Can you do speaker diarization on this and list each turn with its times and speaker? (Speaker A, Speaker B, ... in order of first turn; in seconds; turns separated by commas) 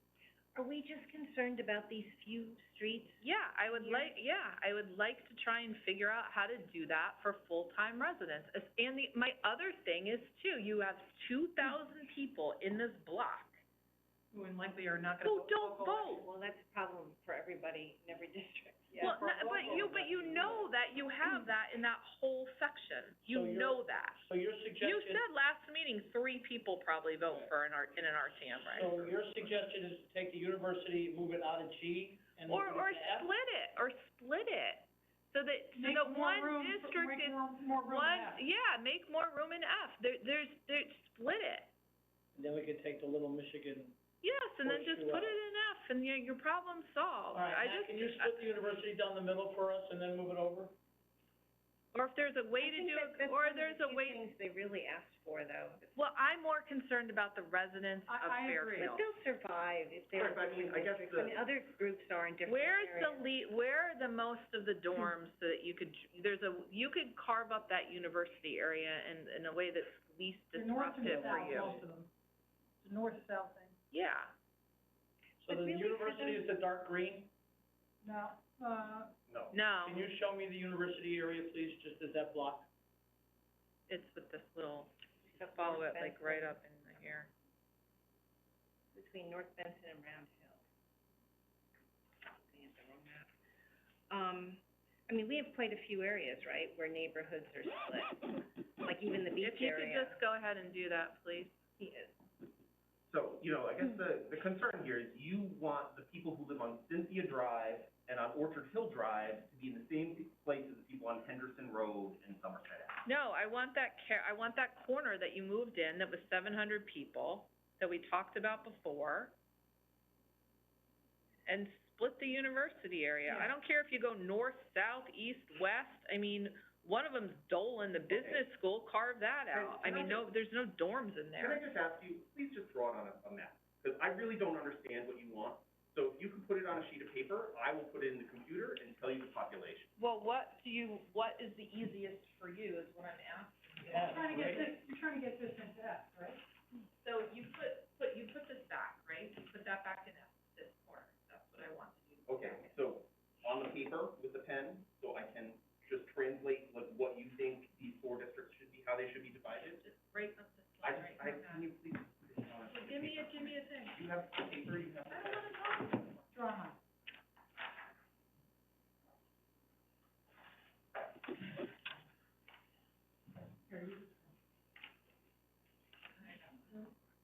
Speaker A: 0.5-4.1, Speaker B: 3.2-13.6, Speaker C: 14.3-16.3, Speaker B: 15.2-16.2, Speaker A: 16.2-19.8, Speaker C: 18.9-20.7, Speaker B: 19.0-24.3, Speaker D: 19.7-20.3, Speaker D: 23.3-25.2, Speaker B: 24.8-29.1, Speaker D: 28.7-33.3, Speaker B: 32.5-41.7, Speaker C: 35.7-38.4, Speaker D: 42.3-44.0, Speaker B: 44.2-48.5, Speaker D: 44.6-45.4, Speaker D: 47.3-50.7, Speaker B: 51.9-54.2, Speaker A: 52.6-56.0, Speaker B: 55.9-59.1, Speaker C: 58.1-59.0, Speaker A: 58.8-63.2, Speaker E: 60.1-61.4, Speaker B: 62.5-71.8, Speaker C: 70.5-72.1, Speaker C: 72.8-73.8, Speaker B: 73.9-74.3, Speaker D: 75.4-77.3, Speaker A: 75.5-76.5, Speaker C: 78.0-79.1, Speaker E: 79.3-79.6, Speaker B: 79.5-80.1, Speaker D: 79.8-82.7, Speaker B: 83.9-87.3, Speaker A: 85.3-86.5, Speaker A: 88.9-90.6, Speaker A: 92.3-93.3, Speaker A: 94.1-100.2, Speaker B: 99.4-101.5, Speaker A: 101.8-102.2, Speaker E: 103.1-113.0, Speaker B: 113.0-119.3, Speaker B: 121.5-131.6, Speaker C: 123.3-123.5, Speaker E: 128.1-128.4, Speaker E: 129.5-130.3, Speaker E: 131.4-139.9, Speaker B: 140.0-144.7, Speaker D: 143.9-144.7, Speaker C: 143.9-146.4, Speaker B: 147.0-152.8, Speaker E: 152.3-159.8, Speaker B: 159.8-161.7, Speaker E: 160.8-165.8, Speaker C: 162.7-163.9, Speaker B: 165.1-166.2, Speaker C: 166.3-166.8, Speaker C: 173.7-174.3, Speaker B: 176.2-176.9